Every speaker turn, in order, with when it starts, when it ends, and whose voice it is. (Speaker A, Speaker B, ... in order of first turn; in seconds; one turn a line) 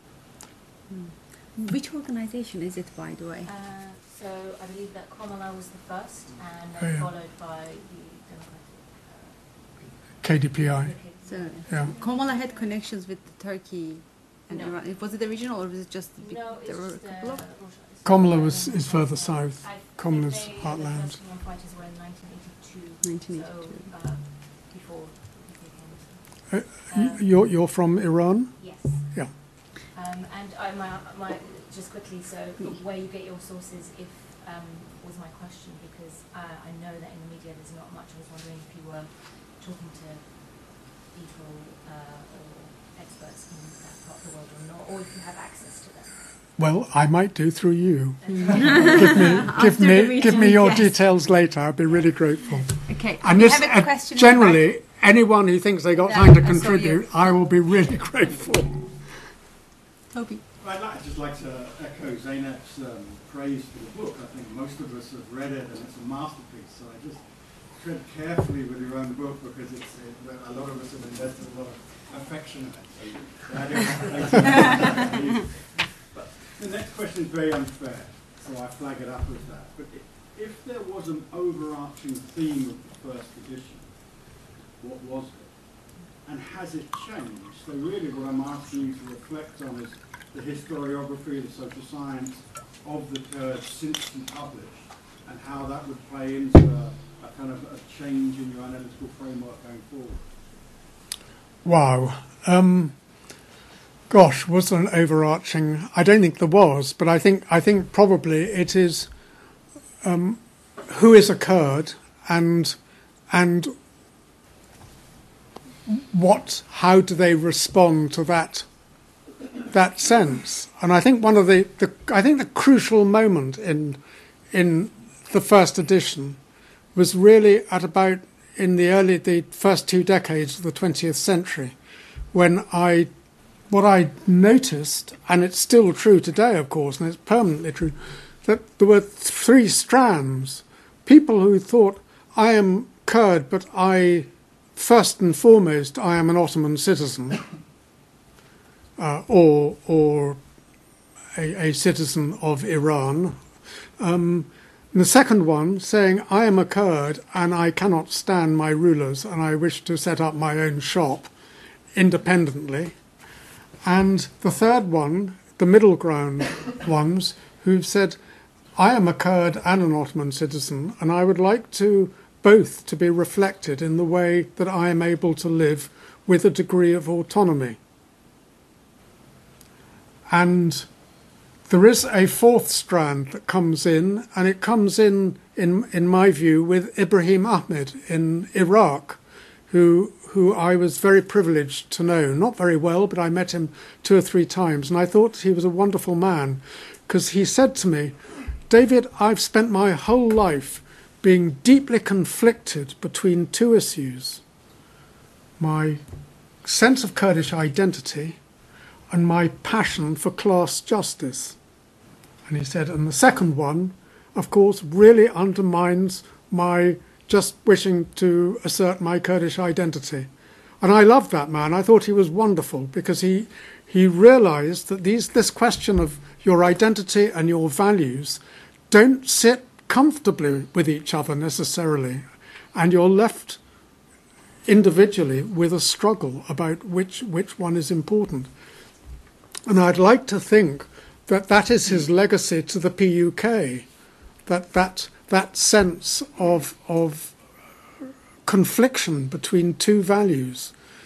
Speaker A: 0.9-3.5
Speaker B: 3.5-12.8
Speaker C: 6.8-7.1
Speaker C: 10.2-11.0
Speaker A: 11.2-17.5
Speaker B: 14.5-14.8
Speaker B: 16.2-27.3
Speaker C: 18.0-21.2
Speaker A: 23.0-23.9
Speaker C: 26.5-29.3
Speaker B: 28.6-46.2
Speaker C: 46.6-59.1
Speaker B: 48.2-50.9
Speaker A: 48.3-50.9
Speaker A: 52.9-54.6
Speaker A: 56.0-57.1
Speaker A: 60.1-60.4
Speaker D: 60.6-100.3
Speaker C: 101.6-103.0
Speaker C: 104.1-109.1
Speaker C: 110.0-112.8
Speaker C: 113.3-113.8
Speaker C: 115.9-118.7
Speaker C: 119.7-124.0
Speaker C: 124.5-126.4
Speaker C: 126.9-131.8
Speaker C: 132.3-133.1
Speaker C: 133.7-147.4
Speaker C: 149.0-150.4
Speaker C: 151.3-153.4
Speaker C: 154.0-161.3
Speaker C: 161.9-163.0
Speaker C: 163.8-168.2
Speaker C: 168.8-177.8
Speaker C: 180.3-180.9
Speaker C: 181.7-198.2
Speaker C: 198.7-204.4
Speaker C: 205.6-206.0
Speaker C: 206.6-208.4
Speaker C: 209.1-211.6
Speaker C: 212.5-220.3
Speaker C: 220.8-233.6
Speaker C: 234.7-238.5
Speaker C: 239.7-243.9
Speaker C: 244.5-247.4
Speaker C: 248.0-250.7